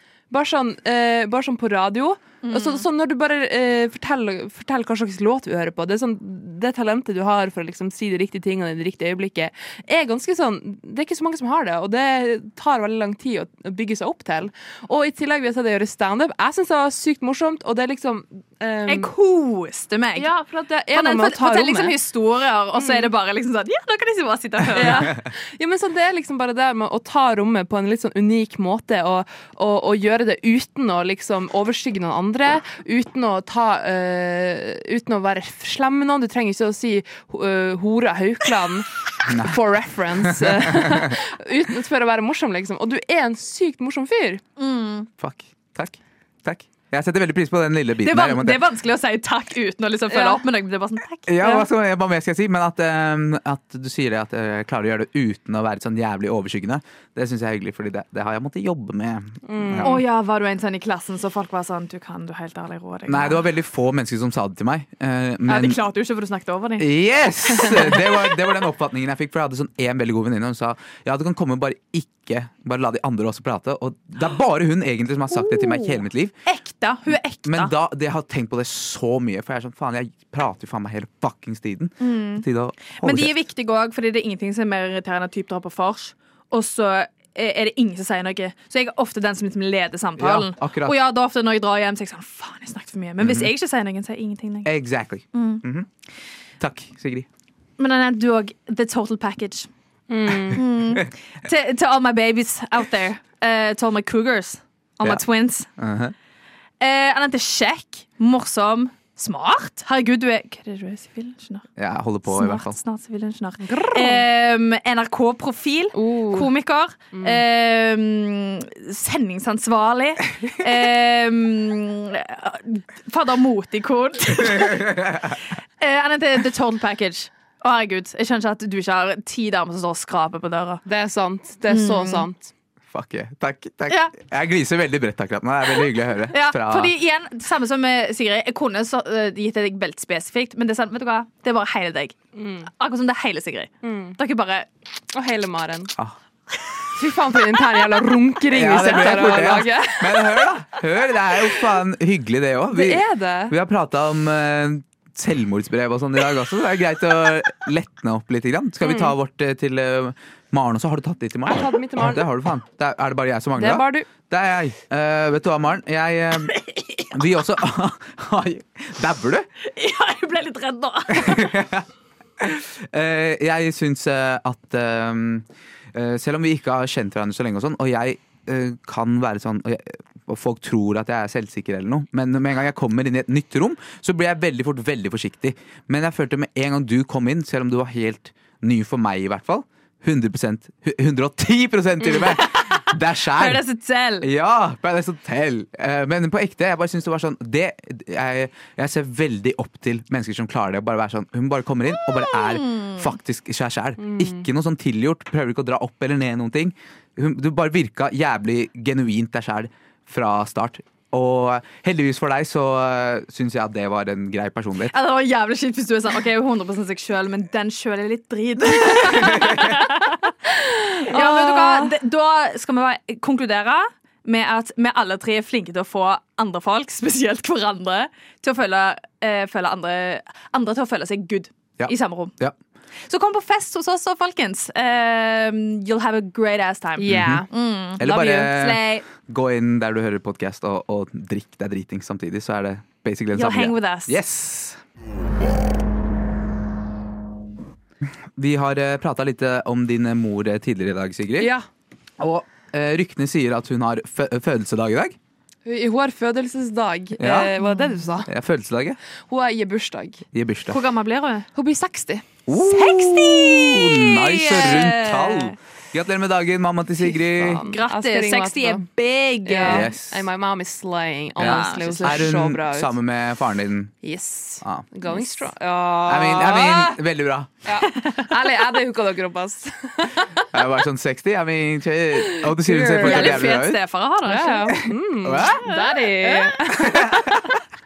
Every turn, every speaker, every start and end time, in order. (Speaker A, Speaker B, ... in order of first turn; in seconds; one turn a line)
Speaker A: 0.3-19.1
Speaker B: 2.4-2.9
Speaker B: 18.9-20.3
Speaker A: 20.1-21.9
Speaker B: 20.9-25.1
Speaker A: 22.8-23.1
Speaker A: 24.7-44.4
Speaker C: 39.3-39.6
Speaker C: 40.2-41.1
Speaker B: 44.6-45.1
Speaker C: 45.2-48.6
Speaker B: 48.0-51.3
Speaker A: 50.1-50.4
Speaker C: 51.3-60.0
Speaker A: 59.4-60.0
Speaker B: 59.8-63.4
Speaker C: 63.1-65.8
Speaker B: 65.5-66.9
Speaker C: 66.8-76.3
Speaker B: 67.5-67.9
Speaker B: 75.3-77.7
Speaker C: 77.4-83.3
Speaker B: 82.0-94.7
Speaker C: 90.2-91.0
Speaker C: 93.2-93.5
Speaker C: 94.6-95.9
Speaker B: 95.3-95.6
Speaker C: 96.6-97.3
Speaker B: 97.8-99.7
Speaker A: 100.1-100.6
Speaker B: 100.5-105.7
Speaker C: 105.8-106.1
Speaker B: 106.8-111.6
Speaker C: 111.8-112.8
Speaker B: 112.2-130.8
Speaker A: 113.6-114.2
Speaker A: 115.9-116.5
Speaker A: 117.1-117.4
Speaker C: 124.5-125.3
Speaker A: 130.8-132.5
Speaker B: 131.7-132.2
Speaker C: 132.9-136.9
Speaker B: 133.9-134.1
Speaker B: 136.3-142.2
Speaker A: 142.3-142.7
Speaker B: 142.8-144.7
Speaker A: 143.8-144.2
Speaker A: 145.1-145.9
Speaker A: 146.9-150.5
Speaker C: 148.5-166.5
Speaker A: 152.7-153.5
Speaker A: 158.8-159.1
Speaker A: 161.5-162.2
Speaker A: 163.6-164.1
Speaker B: 166.5-167.2
Speaker C: 167.1-169.5
Speaker B: 169.6-171.5
Speaker C: 171.1-171.8
Speaker C: 172.4-193.6
Speaker B: 192.4-194.3
Speaker C: 194.2-214.9
Speaker B: 202.2-203.1
Speaker A: 204.0-204.4
Speaker B: 214.8-220.3
Speaker A: 220.6-221.9
Speaker B: 221.1-232.3
Speaker C: 231.8-232.6
Speaker B: 233.1-239.1
Speaker A: 237.0-237.5
Speaker C: 237.1-237.4
Speaker C: 238.0-244.8
Speaker A: 238.0-238.4
Speaker B: 243.3-244.2
Speaker C: 248.3-251.5
Speaker A: 251.4-251.6
Speaker C: 252.2-255.2
Speaker A: 255.6-258.3
Speaker C: 257.2-257.5
Speaker C: 258.2-259.0
Speaker A: 259.3-260.2
Speaker C: 260.3-260.8
Speaker B: 260.7-261.5
Speaker A: 261.5-263.0
Speaker C: 262.5-267.6
Speaker B: 262.8-265.5
Speaker A: 267.0-268.8
Speaker B: 267.6-269.9
Speaker A: 269.4-272.9
Speaker C: 269.6-270.2
Speaker C: 271.4-273.9
Speaker B: 271.4-272.3
Speaker A: 274.0-277.0
Speaker C: 274.6-274.9
Speaker C: 276.1-277.5
Speaker A: 277.6-280.4
Speaker B: 278.0-278.2
Speaker C: 280.5-283.8
Speaker A: 282.3-283.5
Speaker B: 283.0-284.8
Speaker A: 284.2-287.3
Speaker C: 285.2-285.7
Speaker B: 285.6-286.5
Speaker C: 286.7-287.6